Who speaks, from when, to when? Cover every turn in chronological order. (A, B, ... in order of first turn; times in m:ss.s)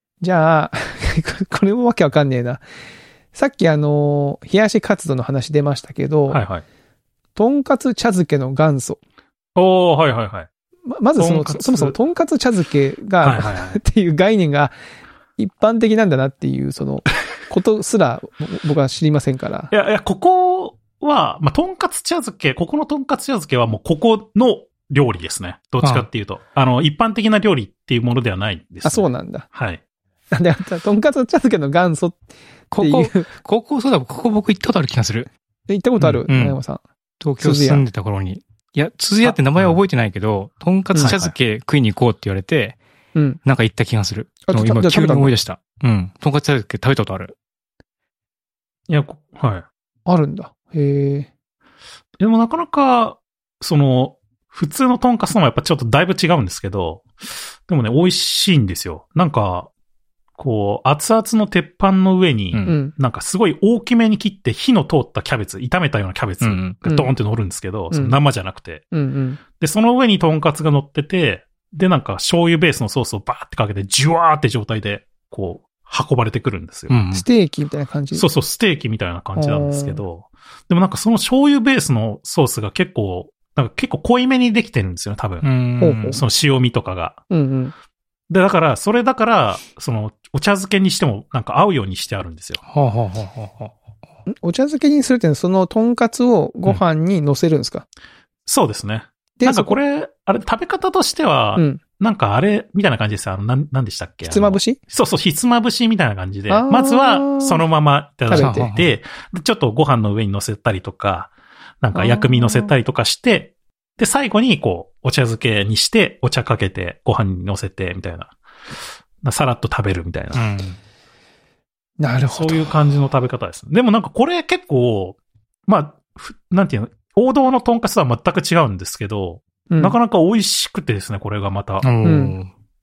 0:00.2-0:02.6 A
0:03.3-0:06.4 A
0:06.3-0:06.6 B
0:07.4-0:09.0 A
0:09.6-0:10.5 B
0:10.9-0:14.8 A
0:11.2-0:12.0 B
0:13.2-0:13.8 B
0:15.4-0:19.7 A
0:19.7-0:29.8 B
0:25.8-0:26.1 C
0:28.8-0:29.5 A
0:30.3-0:32.2 A
0:32.7-0:35.3 C
0:32.8-0:33.3 A
0:35.7-0:36.8 A
0:36.0-0:36.6 C
0:37.2-0:42.8 C
0:37.4-0:37.8 A
0:39.3-0:39.8 B
0:40.9-0:41.3 A
0:43.2-0:43.4 A
0:43.4-0:47.4 C
0:44.5-0:45.4 A
0:48.9-0:49.6 B
0:50.1-0:51.3 A
0:52.2-0:57.1 B
0:57.7-0:59.7 B
1:00.4-1:08.8 B
1:02.7-1:02.9 A
1:06.4-1:06.7 C
1:06.8-1:07.1 A
1:07.9-1:08.2 A
1:08.9-1:09.4 A
1:09.6-1:17.0 B
1:16.9-1:17.3 C
1:17.1-1:18.3 A
1:18.1-1:25.5 B
1:19.4-1:20.0 A
1:25.4-1:26.2 C
1:25.8-1:26.2 A
1:26.1-1:27.2 B
1:27.3-1:27.7 A
1:28.3-1:32.6 B
1:32.6-1:33.8 C
1:34.3-1:37.8 A
1:38.5-1:58.3 B
1:39.4-1:39.8 A
1:41.6-1:41.8 A
1:44.2-1:44.8 A
1:46.5-1:47.6 A
1:48.3-1:48.7 A
1:48.3-1:48.9 C
1:51.9-1:52.7 A
1:59.2-2:00.4 B
2:00.3-2:00.8 C
2:02.0-2:02.7 A
2:02.3-2:11.9 B
2:09.7-2:10.0 A
2:11.8-2:12.5 C
2:12.0-2:12.4 A